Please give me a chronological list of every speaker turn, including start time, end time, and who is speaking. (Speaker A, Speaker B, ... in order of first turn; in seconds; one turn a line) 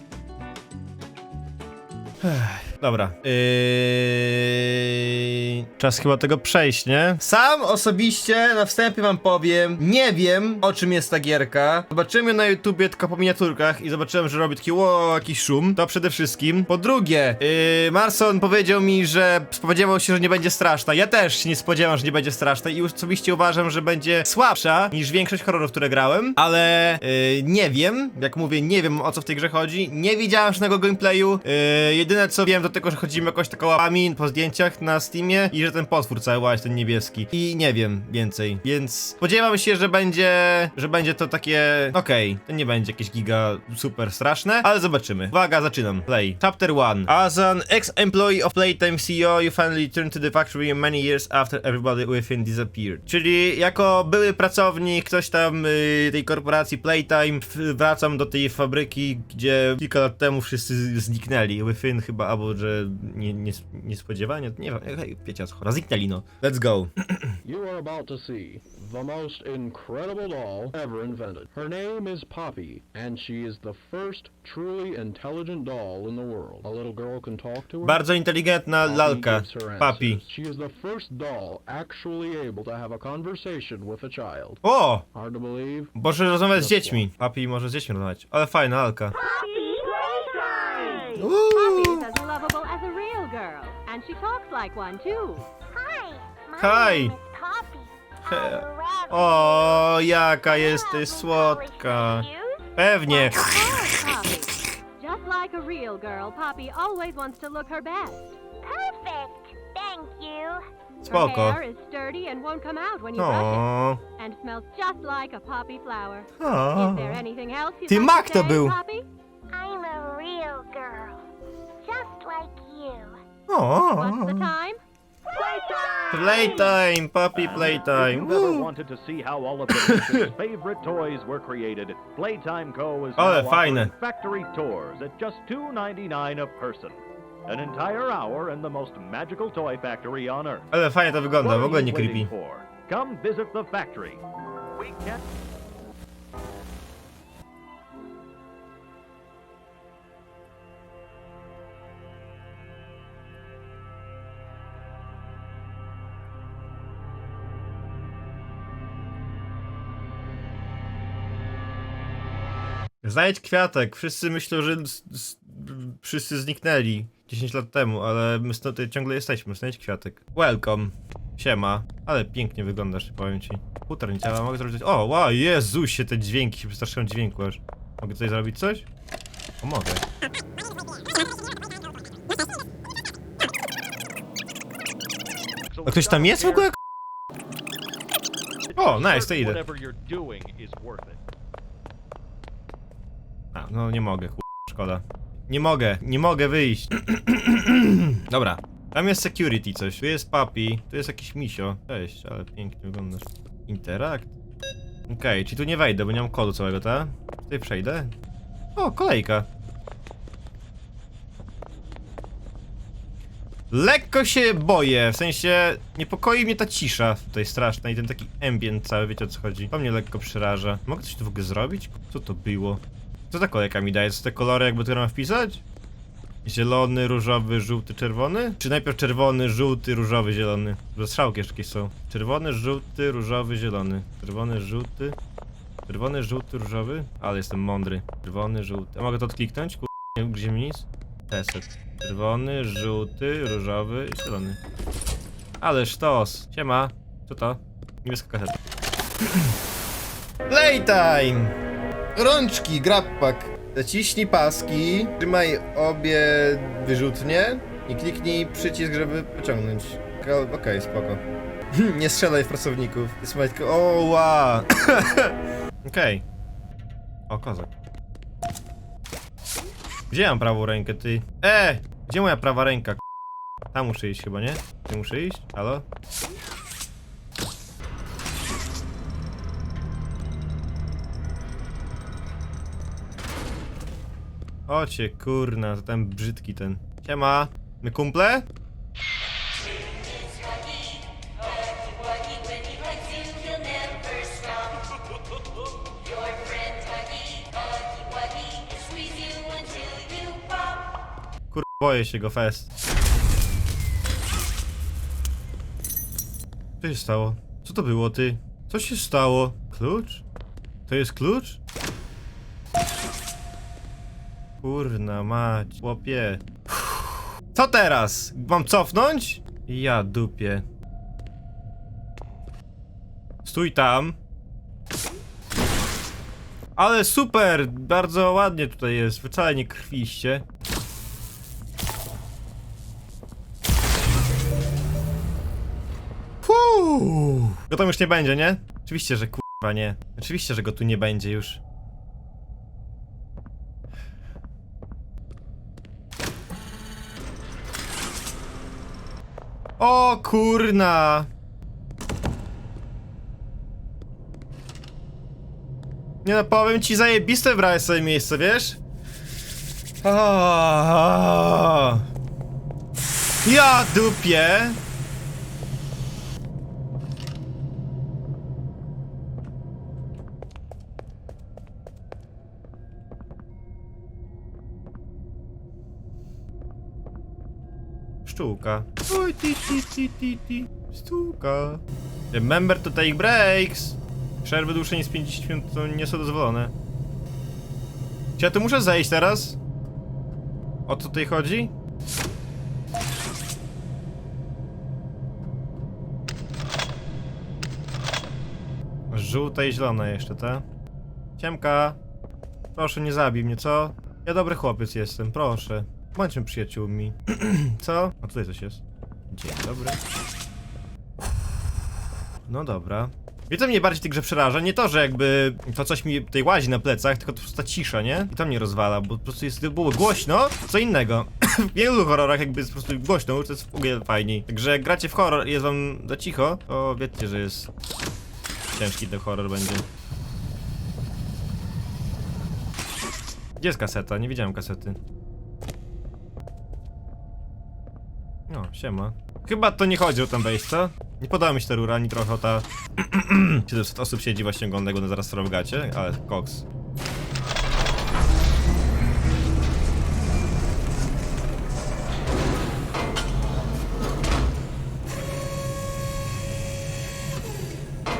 Speaker A: 2.2-67.4
Speaker B: 67.4-78.0
Speaker A: 77.8-80.2
Speaker B: 78.8-84.6
Speaker A: 84.6-85.0
Speaker B: 85.1-85.9
Speaker A: 86.0-89.2
Speaker B: 86.5-87.1
Speaker C: 89.2-91.2
Speaker A: 91.2-92.1
Speaker D: 91.5-95.5
Speaker C: 95.7-102.8
Speaker A: 96.6-97.2
Speaker A: 98.3-104.0
Speaker D: 103.1-108.3
Speaker C: 108.6-110.6
Speaker A: 111.0-111.6
Speaker D: 111.1-113.6
Speaker A: 113.2-114.0
Speaker D: 114.2-119.1
Speaker A: 116.4-117.2
Speaker A: 117.9-118.8
Speaker C: 119.5-121.2
Speaker C: 121.8-123.2
Speaker A: 123.5-124.5
Speaker D: 124.0-124.8
Speaker C: 125.3-126.7
Speaker A: 126.1-128.7
Speaker E: 127.3-140.7
Speaker A: 129.7-130.3
Speaker A: 133.2-133.9
Speaker A: 140.7-142.3
Speaker E: 141.4-144.2
Speaker E: 144.8-145.2
Speaker A: 163.0-178.8
Speaker A: 179.6-180.0
Speaker E: 185.7-186.7
Speaker A: 185.8-186.8
Speaker E: 188.7-191.2
Speaker A: 188.8-189.6
Speaker A: 193.5-204.3
Speaker A: 205.1-208.1
Speaker A: 208.8-209.5
Speaker A: 213.7-225.6
Speaker A: 226.4-235.2
Speaker A: 235.9-244.6
Speaker A: 245.6-248.6
Speaker A: 249.3-249.6
Speaker A: 250.5-251.5
Speaker A: 252.1-261.2
Speaker A: 261.7-266.2
Speaker A: 267.3-267.7
Speaker A: 270.1-273.0
Speaker A: 273.7-275.8
Speaker A: 284.7-288.4
Speaker A: 301.5-302.7
Speaker A: 306.8-310.2
Speaker A: 310.9-311.6
Speaker A: 314.6-320.6
Speaker A: 323.4-324.2
Speaker A: 326.8-330.4
Speaker A: 336.4-341.6
Speaker A: 349.8-351.3
Speaker A: 356.2-358.8
Speaker A: 360.0-362.1
Speaker A: 363.4-364.8
Speaker A: 378.2-386.7
Speaker A: 388.4-389.6
Speaker A: 390.9-391.7
Speaker A: 399.1-400.6
Speaker A: 401.4-402.0
Speaker A: 402.8-410.0
Speaker A: 412.4-427.7
Speaker A: 428.7-429.8
Speaker A: 433.6-435.0
Speaker A: 438.5-446.6